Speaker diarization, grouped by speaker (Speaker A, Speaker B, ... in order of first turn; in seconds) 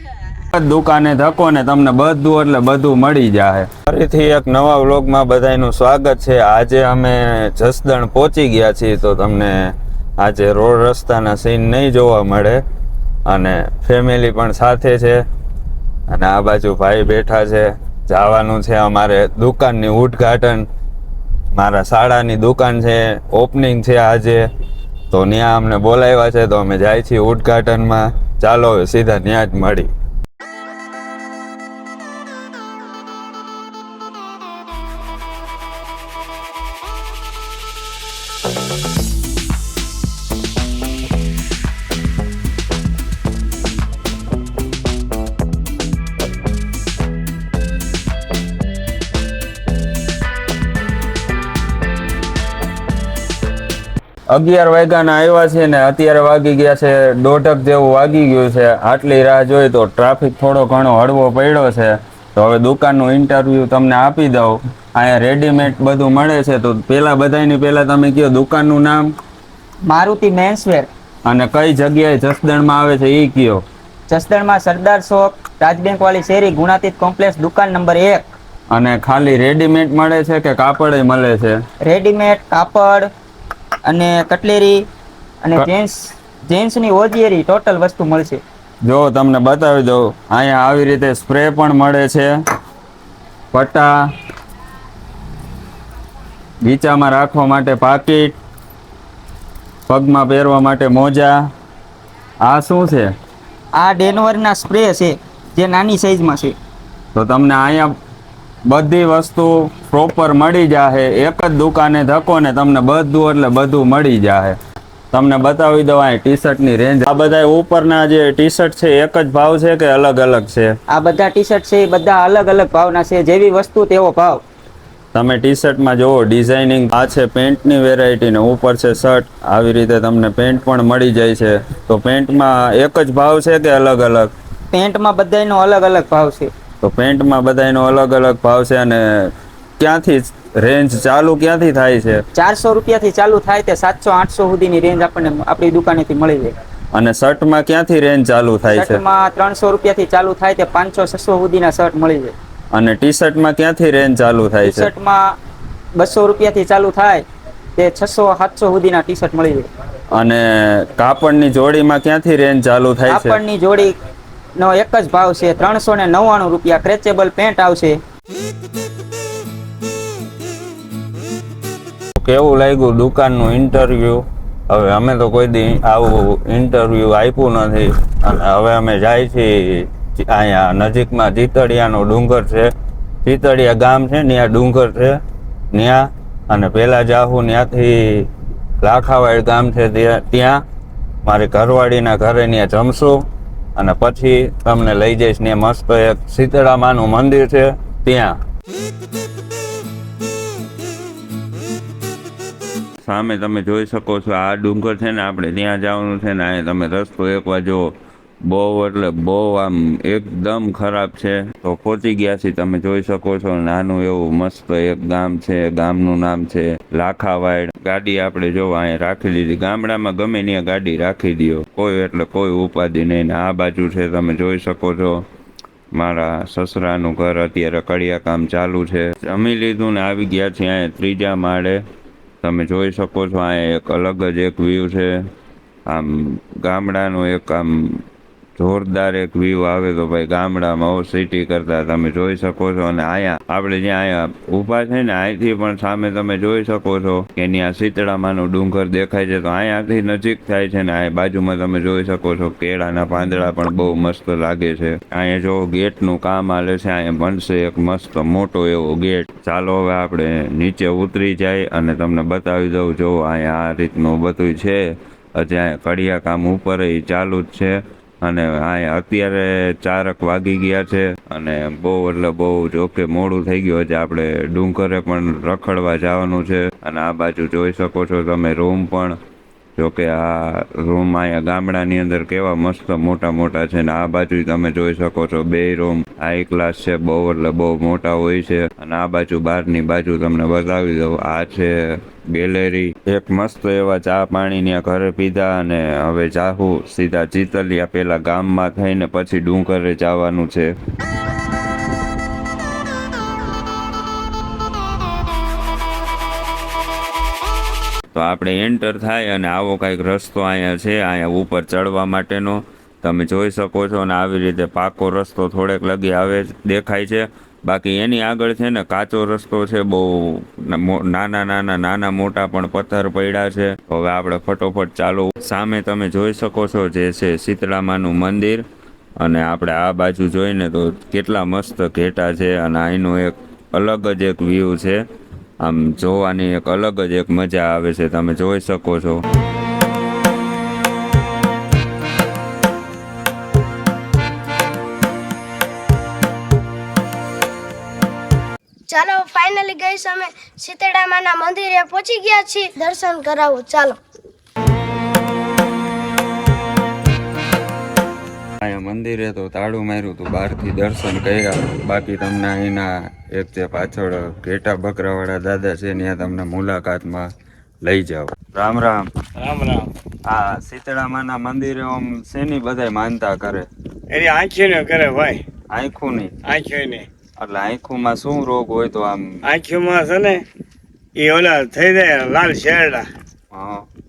Speaker A: 0.5-12.6, 13.2-15.2, 16.1-20.7, 21.5-24.4, 25.1-29.9, 54.3-69.1, 71.2-73.6, 78.7-81.6, 88.8-92.3, 93.5-94.0, 96.6-98.4, 99.9-101.4, 102.4-103.1, 107.1-107.9, 108.7-114.5, 115.1-120.7, 125.1-134.3, 136.8-142.2, 146.9-149.0, 152.7-154.9, 160.1-163.4, 172.2-182.7, 183.2-185.2, 185.7-188.3, 188.8-190.6, 191.2-193.2, 193.8-198.4, 203.0-225.2, 225.9-231.8, 232.4-235.2, 235.9-238.0, 238.6-264.8, 265.4-279.2, 279.8-300.7, 308.1-328.6, 329.2-335.0, 335.6-339.2, 358.6-367.3, 367.8-369.1, 370.2-373.7, 375.7-376.3, 377.4-379.4, 383.5-383.9
Speaker B: 69.8-70.9, 74.1-78.3, 81.8-83.1, 83.8-84.9, 85.4-88.4, 103.7-106.5, 120.9-124.4, 134.7-136.5, 142.3-146.5, 148.7-152.3, 154.6-155.4, 156.0-157.2, 157.8-159.7, 163.1-163.9, 164.6-168.0
Speaker C: 348.9-354.0
Speaker D: 369.4-369.9, 374.1-375.4, 376.4-377.1, 379.5-380.4, 381.1-383.1